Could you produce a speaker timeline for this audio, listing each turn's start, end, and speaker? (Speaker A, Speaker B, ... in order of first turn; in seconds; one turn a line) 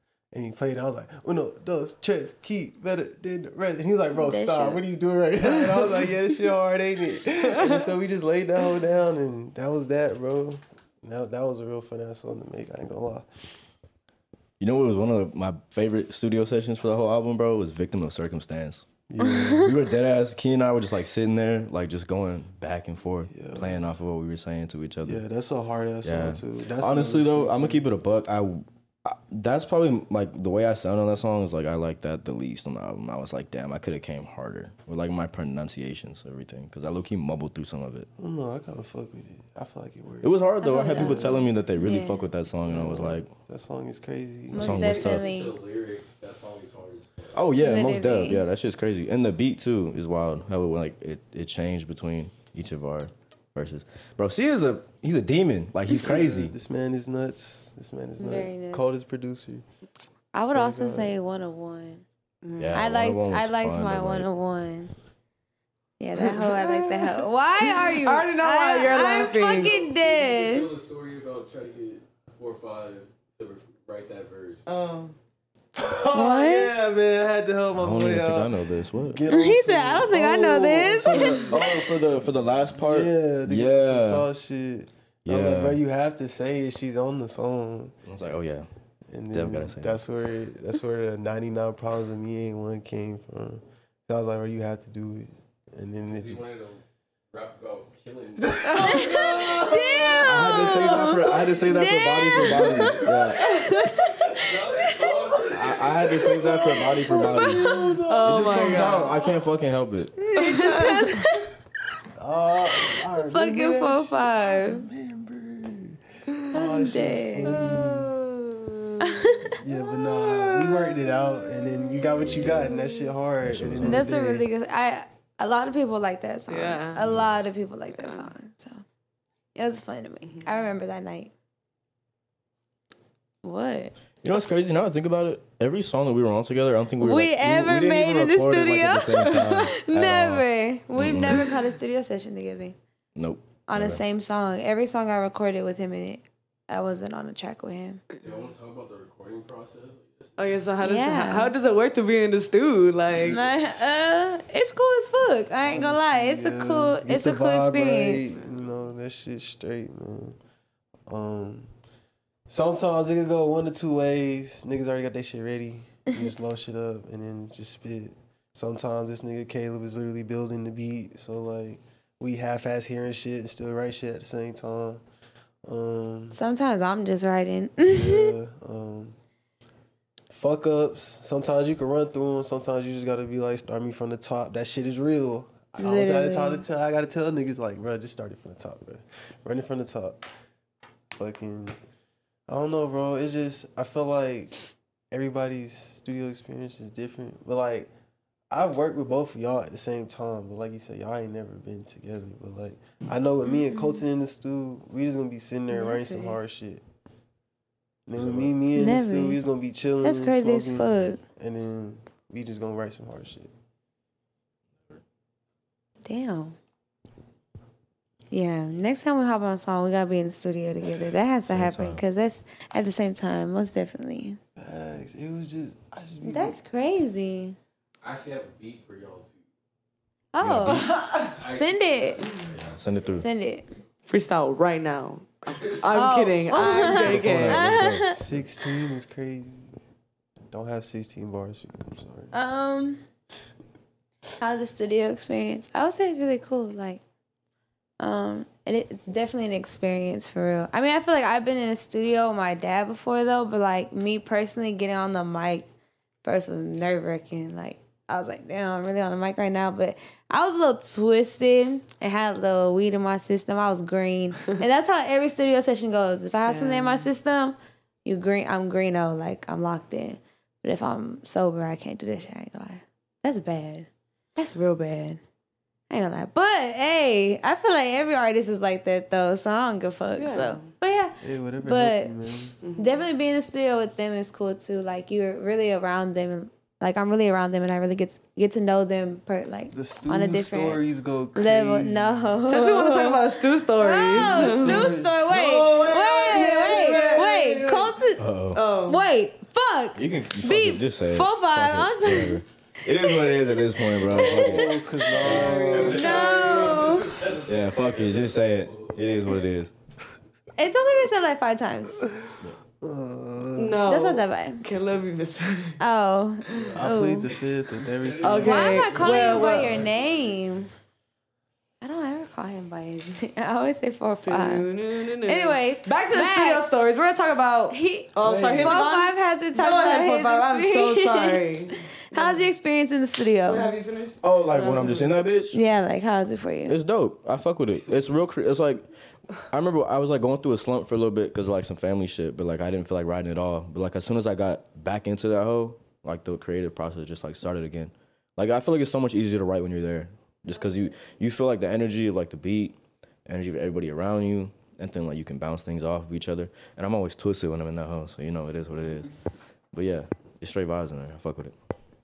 Speaker A: 0.3-13.5
Speaker B: 4.1-4.8
Speaker C: 7.4-7.9
Speaker D: 14.6-18.9
Speaker A: 19.1-19.8
Speaker B: 19.2-19.7
Speaker D: 19.5-25.2
Speaker A: 23.3-23.8
Speaker A: 25.0-27.8
Speaker D: 26.0-38.1
Speaker A: 38.2-41.5
Speaker D: 40.2-43.3
Speaker B: 40.6-42.2
Speaker A: 42.7-44.9
Speaker B: 44.5-45.6
Speaker D: 44.6-45.2
Speaker E: 44.6-47.4
Speaker D: 47.3-56.5
Speaker B: 47.6-48.4
Speaker A: 55.9-59.6
Speaker B: 58.2-58.9
Speaker B: 60.3-62.0
Speaker A: 60.4-61.1
Speaker C: 62.4-62.8
Speaker D: 62.6-64.3
Speaker B: 62.7-64.9
Speaker B: 66.0-70.7
Speaker C: 66.2-69.8
Speaker E: 69.4-74.7
Speaker C: 74.7-75.1
Speaker A: 75.7-82.0
Speaker B: 76.1-76.7
Speaker D: 77.7-79.2
Speaker B: 79.3-81.5
Speaker D: 81.5-84.3
Speaker A: 82.8-88.0
Speaker D: 85.2-85.8
Speaker D: 88.0-88.7
Speaker A: 89.1-96.5
Speaker D: 89.3-90.0
Speaker E: 96.0-99.1
Speaker A: 98.4-101.4
Speaker B: 98.8-105.3
Speaker D: 100.2-103.4
Speaker E: 102.6-106.3
Speaker D: 105.5-110.1
Speaker A: 105.7-109.4
Speaker B: 106.2-107.6
Speaker C: 108.1-109.2
Speaker B: 110.2-111.5
Speaker C: 110.4-111.2
Speaker A: 112.1-118.1
Speaker B: 113.2-114.8
Speaker B: 116.5-117.6
Speaker C: 117.4-119.3
Speaker B: 119.0-119.6
Speaker A: 119.5-124.5
Speaker C: 120.0-121.4
Speaker B: 121.9-123.0
Speaker D: 122.3-122.7
Speaker D: 123.4-124.0
Speaker B: 123.8-128.8
Speaker C: 126.5-127.0
Speaker D: 127.0-127.3
Speaker C: 127.9-128.3
Speaker B: 129.5-131.3
Speaker B: 133.4-133.9
Speaker D: 134.2-141.5
Speaker B: 137.0-142.8
Speaker D: 143.1-144.0
Speaker B: 143.7-148.0
Speaker E: 148.2-150.7
Speaker C: 150.4-153.4
Speaker B: 150.8-151.5
Speaker B: 153.3-158.2
Speaker A: 155.6-160.4
Speaker A: 161.1-161.7
Speaker A: 162.5-175.0
Speaker A: 175.6-176.4
Speaker B: 176.3-178.3
Speaker A: 177.8-179.2
Speaker A: 180.3-190.2
Speaker B: 185.8-186.6
Speaker A: 191.2-191.8
Speaker A: 192.5-197.9
Speaker A: 198.5-206.8
Speaker B: 205.7-206.4
Speaker A: 208.1-213.5
Speaker D: 208.2-208.5
Speaker B: 208.7-209.4
Speaker B: 210.0-211.2
Speaker B: 216.0-216.6
Speaker B: 218.3-224.4
Speaker D: 221.5-222.0
Speaker A: 224.6-226.6
Speaker B: 226.2-227.6
Speaker E: 228.0-229.4
Speaker B: 230.3-232.2
Speaker D: 230.4-230.9
Speaker E: 231.2-232.5
Speaker D: 232.5-233.2
Speaker B: 233.2-233.7
Speaker C: 234.1-237.7
Speaker E: 235.5-235.9
Speaker B: 235.9-238.2
Speaker D: 236.8-238.3
Speaker A: 237.4-239.7
Speaker A: 240.5-242.3
Speaker B: 242.3-243.0
Speaker B: 244.4-247.0
Speaker B: 248.0-255.7
Speaker B: 256.2-275.2
Speaker C: 266.5-267.1
Speaker B: 275.9-282.1
Speaker C: 280.1-280.7
Speaker A: 281.2-282.6
Speaker C: 282.6-283.0
Speaker B: 282.8-290.8
Speaker A: 289.7-292.5
Speaker B: 291.3-293.2
Speaker C: 292.5-295.0
Speaker B: 293.8-298.2
Speaker A: 293.9-298.0
Speaker C: 295.6-297.3
Speaker D: 298.2-298.6
Speaker C: 298.5-299.0
Speaker B: 298.9-302.4
Speaker D: 299.9-306.0
Speaker B: 303.1-304.7
Speaker A: 304.1-306.4
Speaker E: 305.2-309.4
Speaker C: 305.2-307.0
Speaker B: 305.9-307.1
Speaker D: 307.4-309.7
Speaker B: 310.6-312.0
Speaker A: 312.2-313.8
Speaker C: 313.6-315.8
Speaker B: 313.9-314.6
Speaker B: 315.8-317.3
Speaker A: 316.7-320.0
Speaker E: 317.9-320.4
Speaker C: 318.2-319.7
Speaker B: 318.4-320.7
Speaker B: 321.8-324.7
Speaker C: 324.2-332.4
Speaker B: 325.2-326.6
Speaker B: 327.7-331.4
Speaker A: 328.2-328.8
Speaker B: 332.1-333.7
Speaker C: 333.5-335.2
Speaker D: 334.2-335.6
Speaker B: 335.5-336.8
Speaker D: 336.7-338.9
Speaker D: 339.5-359.1
Speaker D: 359.7-361.5